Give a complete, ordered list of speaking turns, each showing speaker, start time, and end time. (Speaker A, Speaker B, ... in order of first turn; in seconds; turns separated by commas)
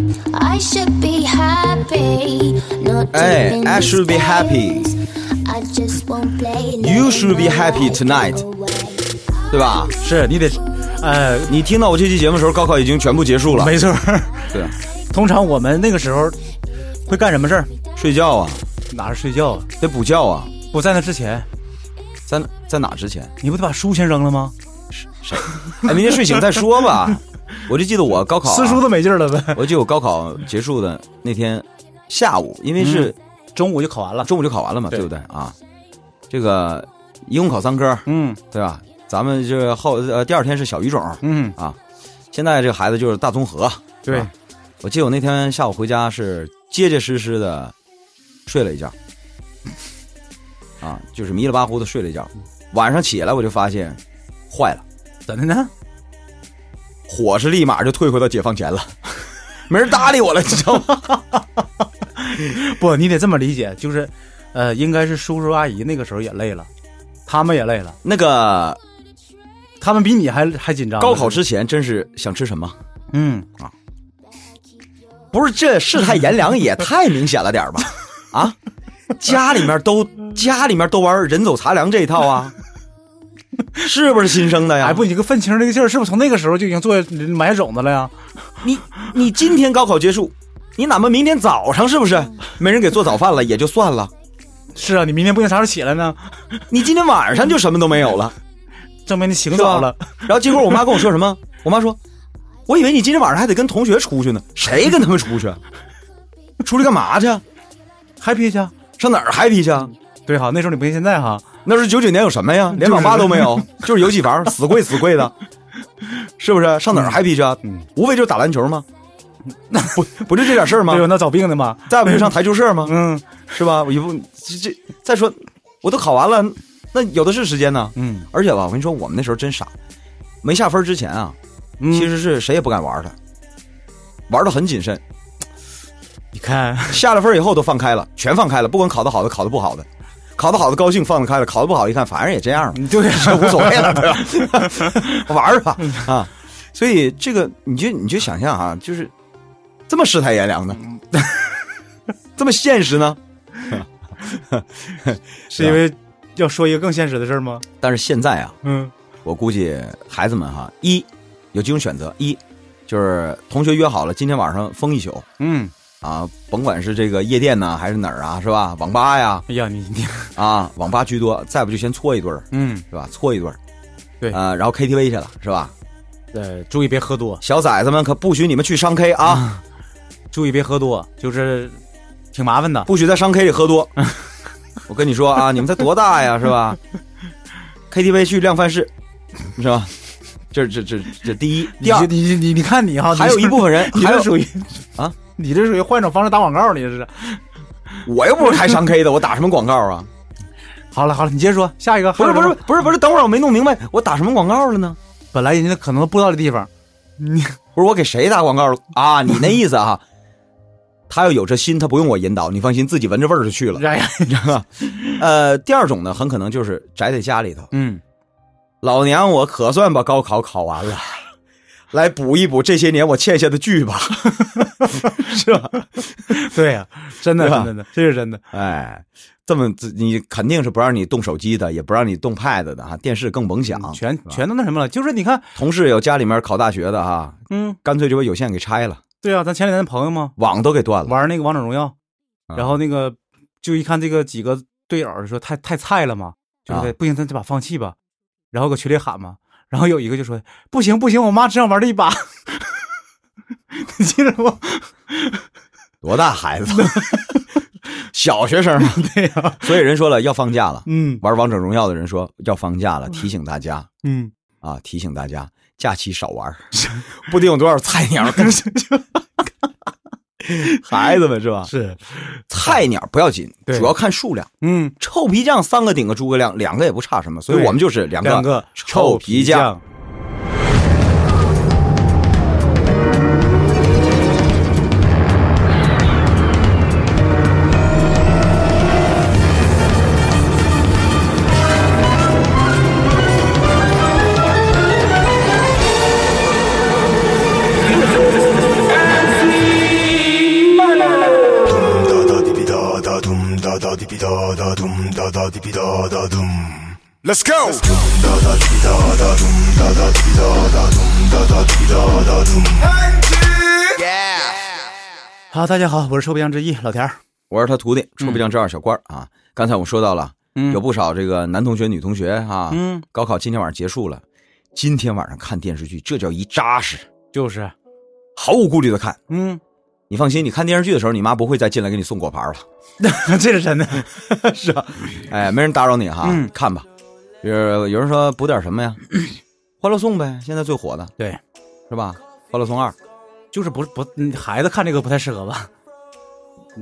Speaker A: 0.3-9.1, Speaker B: 3.1-4.9, Speaker B: 6.8-8.4, Speaker B: 9.5-9.9, Speaker C: 10.0-11.5, Speaker B: 11.5-13.8, Speaker C: 13.5-16.4, Speaker B: 14.5-14.8, Speaker C: 17.1-17.7, Speaker B: 18.0-18.7, Speaker C: 18.9-19.7, Speaker B: 19.8-20.5, Speaker C: 20.7-21.5, Speaker B: 22.3-23.4, Speaker C: 23.4-24.6, Speaker B: 24.9-28.9, Speaker C: 28.4-29.7, Speaker B: 29.5-33.2, Speaker C: 32.8-34.3, Speaker B: 34.2-35.6, Speaker B: 36.3-41.8, Speaker C: 38.1-38.4, Speaker C: 41.2-41.6, Speaker B: 42.3-44.3, Speaker C: 44.1-44.3, Speaker B: 44.8-47.7, Speaker B: 48.5-49.0, Speaker B: 50.8-54.8, Speaker C: 55.3-55.7, Speaker B: 57.1-61.1, Speaker C: 61.0-61.4, Speaker C: 62.2-66.7, Speaker C: 67.3-68.0, Speaker B: 68.0-68.8, Speaker C: 69.8-71.4, Speaker B: 71.0-72.8, Speaker C: 73.1-73.5, Speaker B: 75.3-78.6, Speaker B: 79.2-82.5, Speaker B: 83.8-85.0, Speaker C: 84.8-88.1, Speaker B: 88.6-94.1, Speaker C: 94.8-96.6, Speaker B: 96.7-98.3, Speaker C: 99.1-100.3, Speaker B: 99.5-102.0, Speaker B: 102.7-105.6, Speaker B: 106.6-107.4, Speaker C: 108.2-108.8, Speaker B: 109.0-109.9, Speaker C: 110.3-111.5, Speaker B: 111.7-115.3, Speaker C: 112.8-113.9, Speaker B: 116.4-118.9, Speaker C: 117.0-117.9, Speaker C: 119.7-123.4, Speaker B: 119.9-121.1, Speaker B: 121.9-123.0, Speaker B: 123.5-129.7, Speaker C: 128.0-128.3, Speaker B: 130.4-131.4, Speaker C: 131.8-132.1, Speaker B: 131.9-133.2, Speaker B: 134.3-135.0, Speaker C: 136.3-137.0, Speaker B: 136.9-149.1, Speaker C: 142.8-145.2, Speaker B: 149.9-150.9, Speaker C: 151.2-151.4, Speaker B: 152.4-155.8, Speaker C: 155.5-157.7, Speaker B: 157.8-158.6, Speaker C: 158.6-158.9, Speaker B: 159.2-165.3, Speaker C: 165.4-165.7, Speaker B: 166.0-169.5, Speaker C: 169.5-170.4, Speaker B: 170.4-173.6, Speaker C: 172.5-172.8, Speaker B: 174.3-175.7, Speaker C: 176.3-177.4, Speaker B: 177.4-179.6, Speaker C: 180.3-181.8, Speaker C: 182.3-182.9, Speaker B: 182.9-183.9, Speaker B: 184.9-186.8, Speaker B: 187.9-188.9, Speaker B: 189.6-189.9, Speaker B: 190.5-192.1, Speaker C: 191.8-197.4, Speaker B: 193.1-194.3, Speaker B: 198.0-200.1, Speaker C: 200.9-202.6, Speaker B: 202.2-205.0, Speaker C: 205.3-207.6, Speaker B: 207.8-210.0, Speaker B: 211.1-217.7, Speaker C: 213.8-214.4, Speaker C: 217.7-218.0, Speaker B: 218.8-221.2, Speaker B: 221.9-226.4, Speaker C: 224.4-225.2, Speaker C: 226.3-228.4, Speaker B: 227.4-227.7, Speaker B: 228.5-234.4, Speaker C: 233.7-235.5, Speaker B: 235.6-239.0, Speaker C: 237.5-237.8, Speaker C: 239.2-240.3, Speaker B: 240.4-241.2, Speaker C: 241.1-241.9, Speaker B: 242.5-242.8, Speaker C: 242.6-248.0, Speaker C: 248.5-252.8, Speaker C: 253.7-255.4, Speaker B: 256.0-257.2, Speaker C: 256.7-257.5, Speaker B: 258.0-263.9, Speaker C: 258.8-259.8, Speaker C: 260.9-261.2, Speaker C: 264.0-264.3, Speaker B: 264.6-268.6, Speaker C: 266.8-267.1, Speaker C: 268.3-269.2, Speaker B: 270.4-271.7, Speaker C: 270.6-271.1, Speaker C: 271.7-272.4, Speaker B: 272.5-279.7, Speaker C: 273.7-273.9, Speaker C: 274.6-274.9, Speaker C: 277.5-279.8, Speaker D: 301.6-314.6, Speaker C: 315.5-317.2, Speaker B: 317.5-327.1, Speaker C: 320.6-320.8, Speaker C: 322.7-323.0, Speaker C: 327.3-327.7, Speaker B: 328.4-329.2, Speaker C: 329.3-329.6, Speaker B: 330.1-332.6, Speaker C: 333.0-334.4, Speaker B: 334.2-336.9, Speaker C: 336.2-336.5, Speaker B: 337.4-339.1, Speaker B: 339.8-341.1, Speaker B: 341.9-343.0, Speaker C: 343.5-345.7